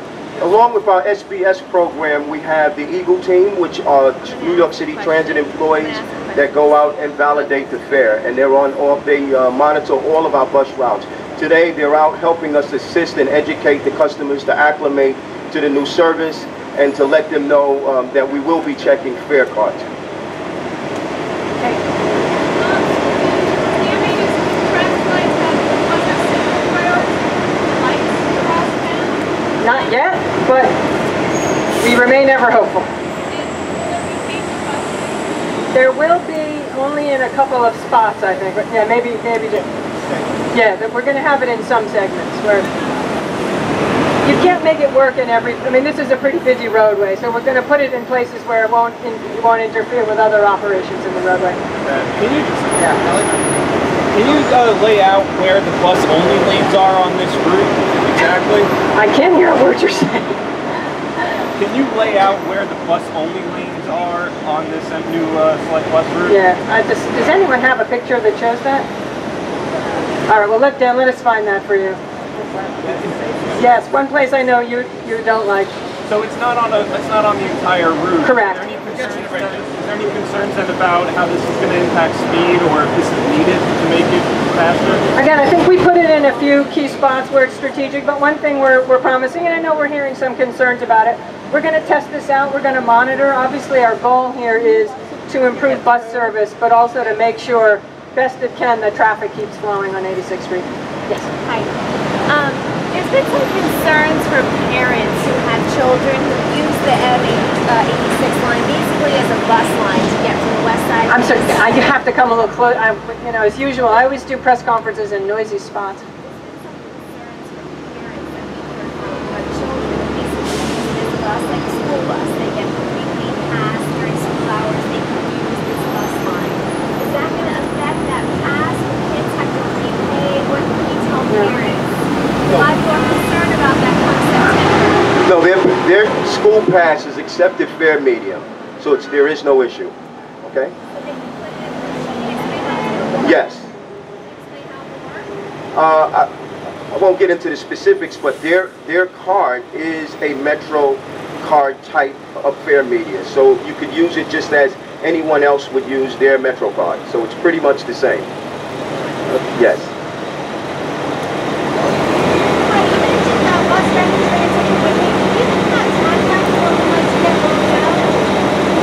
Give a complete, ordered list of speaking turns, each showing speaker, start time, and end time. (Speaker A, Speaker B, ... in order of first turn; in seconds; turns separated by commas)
Speaker A: 0.4-19.9, Speaker B: 4.2-7.8, Speaker C: 29.6-30.8, Speaker C: 31.8-32.9, Speaker C: 35.7-39.6, Speaker C: 40.5-42.7, Speaker C: 44.2-51.6, Speaker D: 51.9-53.2, Speaker D: 54.1-58.7, Speaker C: 59.0-60.4, Speaker D: 61.5-66.4, Speaker C: 66.3-68.9, Speaker C: 70.3-72.0, Speaker D: 72.8-73.7, Speaker C: 73.6-75.7, Speaker D: 76.1-85.0, Speaker C: 78.2-78.6, Speaker C: 85.2-101.3, Speaker B: 101.4-101.7, Speaker B: 102.3-111.7, Speaker C: 111.1-116.0, Speaker B: 116.2-131.9, Speaker A: 132.5-132.7, Speaker B: 132.5-135.0, Speaker A: 135.2-140.7, Speaker B: 140.9-143.7, Speaker A: 143.2-143.6, Speaker B: 144.2-145.3, Speaker A: 145.8-146.3, Speaker A: 146.9-158.3, Speaker A: 159.3-159.9, Speaker B: 162.4-168.3